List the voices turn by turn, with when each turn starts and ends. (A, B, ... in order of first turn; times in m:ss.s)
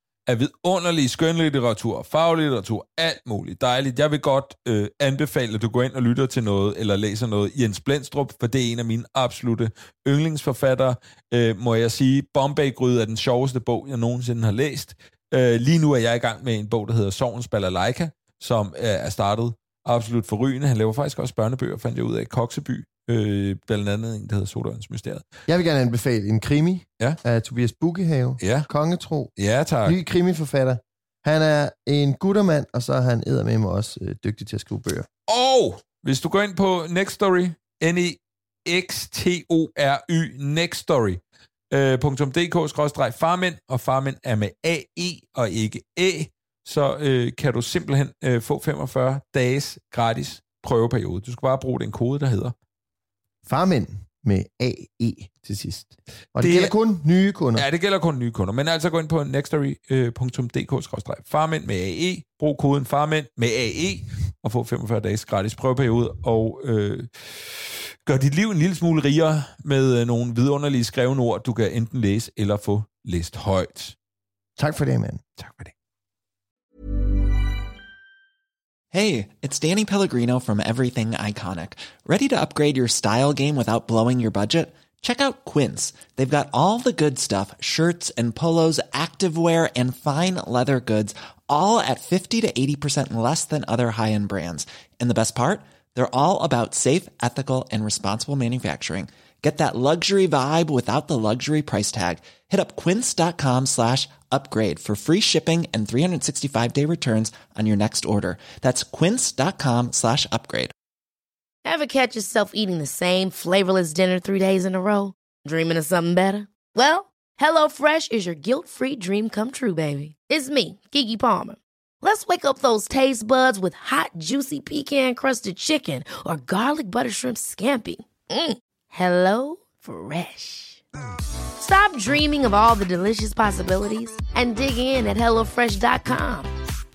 0:00.3-0:25.3 A
0:25.5-0:29.3 B
0:28.4-0:28.7 A
0:29.4-0:30.0 A
0:29.8-0:35.1 B
0:35.3-0:41.2 A
0:41.7-0:52.5 A
0:53.4-0:57.7 B
0:56.4-0:56.7 A
0:57.5-1:14.0 A
1:14.6-1:15.2 B
1:15.4-1:15.7 A
1:18.9-1:50.7 C
1:51.6-2:10.8 D
2:11.6-2:16.5 D